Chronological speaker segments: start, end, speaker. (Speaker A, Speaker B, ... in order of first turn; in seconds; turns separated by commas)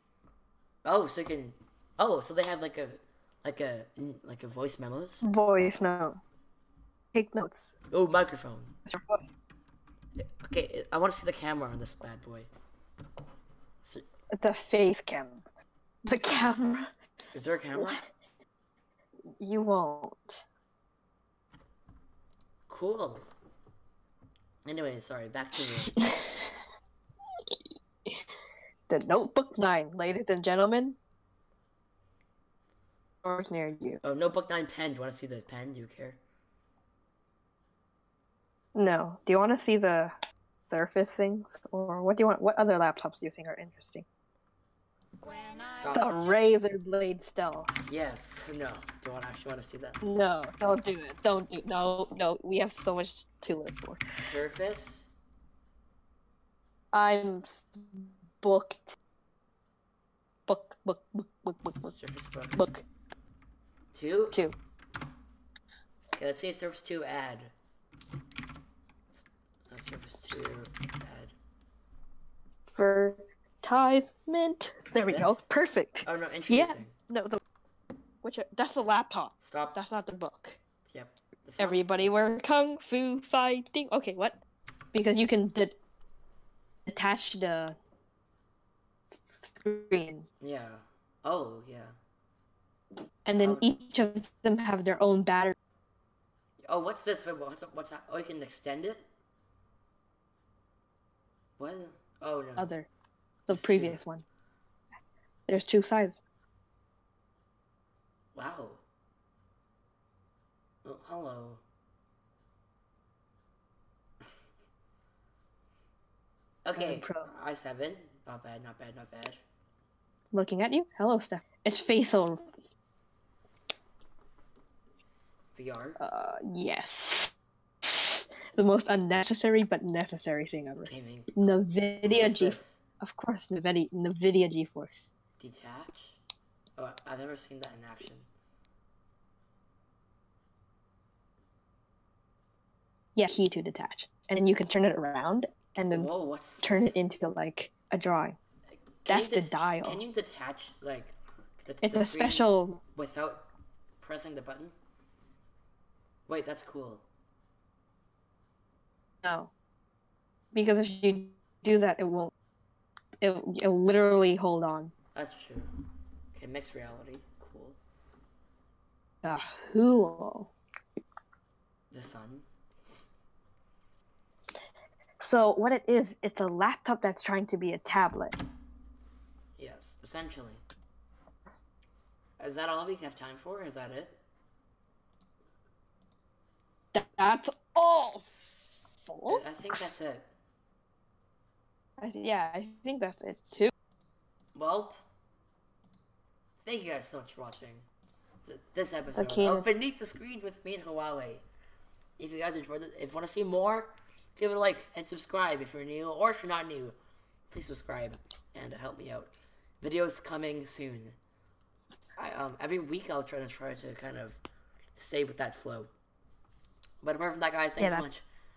Speaker A: 0.8-5.2, Speaker B: 5.2-6.2, Speaker B: 7.1-7.7, Speaker A: 7.9-8.8, Speaker B: 8.8-9.2, Speaker A: 10.2-12.5, Speaker B: 14.3-15.4, Speaker B: 16.1-16.9, Speaker A: 17.3-18.0, Speaker B: 17.8-18.1, Speaker B: 19.4-20.4, Speaker A: 22.7-23.3, Speaker A: 24.6-26.0, Speaker B: 25.9-26.6, Speaker B: 28.9-31.0, Speaker B: 33.2-34.0, Speaker A: 34.0-36.2, Speaker B: 38.7-40.1, Speaker B: 40.6-44.0, Speaker A: 45.7-46.2, Speaker B: 45.9-47.9, Speaker A: 47.9-50.0, Speaker B: 50.0-54.0, Speaker A: 54.2-55.1, Speaker B: 56.9-59.0, Speaker B: 60.5-61.9, Speaker A: 61.8-62.6, Speaker B: 62.5-62.8, Speaker A: 63.9-64.4, Speaker A: 66.1-67.5, Speaker A: 69.2-71.3, Speaker B: 72.7-77.4, Speaker A: 74.9-75.4, Speaker A: 76.0-76.9, Speaker B: 78.2-80.6, Speaker A: 79.4-79.8, Speaker A: 80.9-81.9, Speaker B: 81.6-84.4, Speaker B: 84.9-85.7, Speaker B: 86.8-87.8, Speaker B: 89.1-90.2, Speaker A: 90.4-91.9, Speaker B: 93.2-95.5, Speaker A: 93.3-93.7, Speaker A: 96.7-99.0, Speaker A: 101.6-102.7, Speaker B: 102.6-102.9, Speaker B: 103.5-104.2, Speaker A: 103.5-104.0, Speaker B: 105.5-106.2, Speaker A: 108.3-108.8, Speaker A: 110.8-111.6, Speaker A: 116.6-119.4, Speaker B: 116.8-117.3, Speaker B: 120.3-122.5, Speaker A: 125.5-126.0, Speaker B: 126.0-135.1, Speaker A: 130.8-131.3, Speaker A: 132.1-132.8, Speaker A: 135.4-136.2, Speaker A: 136.8-138.3, Speaker B: 143.2-146.1, Speaker A: 145.7-146.9, Speaker B: 146.6-148.4, Speaker A: 149.0-153.5, Speaker B: 149.1-150.0, Speaker B: 151.8-152.8, Speaker A: 154.0-154.7, Speaker A: 156.3-157.0, Speaker B: 159.2-159.5, Speaker B: 160.5-162.3, Speaker B: 163.2-164.9, Speaker A: 165.1-165.7, Speaker A: 166.3-167.8, Speaker B: 169.2-170.5, Speaker A: 171.9-172.5, Speaker B: 175.2-178.3, Speaker A: 179.6-180.6, Speaker A: 182.4-184.2, Speaker B: 186.9-189.9, Speaker A: 189.3-190.3, Speaker B: 192.0-193.7, Speaker A: 194.5-195.0, Speaker A: 196.6-197.8, Speaker A: 198.4-201.4, Speaker B: 199.1-199.7, Speaker A: 202.2-206.9, Speaker A: 207.5-211.2, Speaker A: 212.2-214.4, Speaker A: 214.9-215.9, Speaker A: 217.0-218.2, Speaker B: 217.8-218.1